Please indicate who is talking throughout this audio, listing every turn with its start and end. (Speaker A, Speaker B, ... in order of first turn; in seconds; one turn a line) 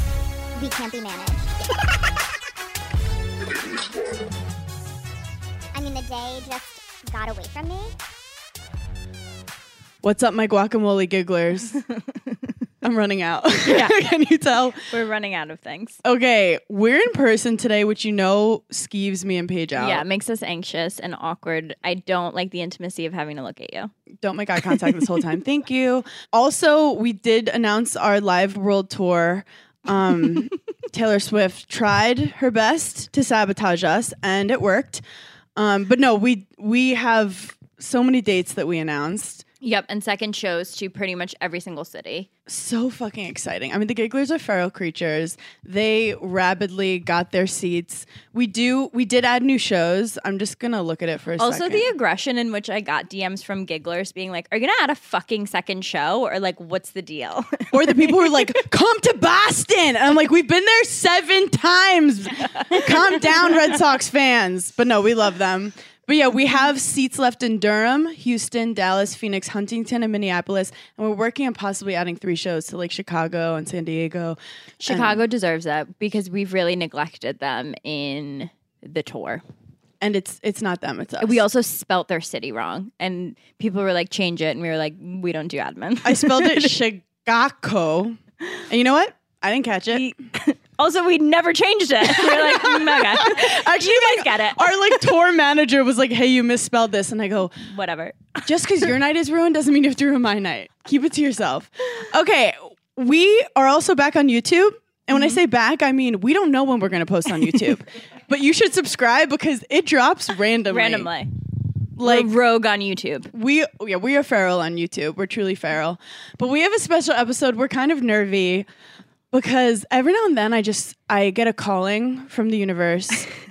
Speaker A: 0.6-1.7
Speaker A: 5.7-7.9
Speaker B: 10.0-11.8
Speaker B: 12.8-14.8
Speaker C: 13.6-14.1
Speaker C: 14.8-16.0
Speaker B: 16.0-20.0
Speaker C: 19.8-23.9
Speaker B: 24.2-35.0
Speaker B: 35.5-39.4
Speaker C: 39.6-42.3
Speaker B: 42.5-51.9
Speaker C: 51.4-58.5
Speaker B: 57.7-75.2
Speaker C: 74.8-79.4
Speaker B: 80.0-81.4
Speaker C: 81.2-86.7
Speaker B: 86.0-90.0
Speaker C: 89.9-95.1
Speaker B: 92.0-97.5
Speaker C: 97.6-98.4
Speaker B: 98.4-111.1
Speaker C: 110.7-111.3
Speaker B: 112.0-112.3
Speaker C: 112.0-113.3
Speaker B: 113.3-118.7
Speaker B: 119.3-123.3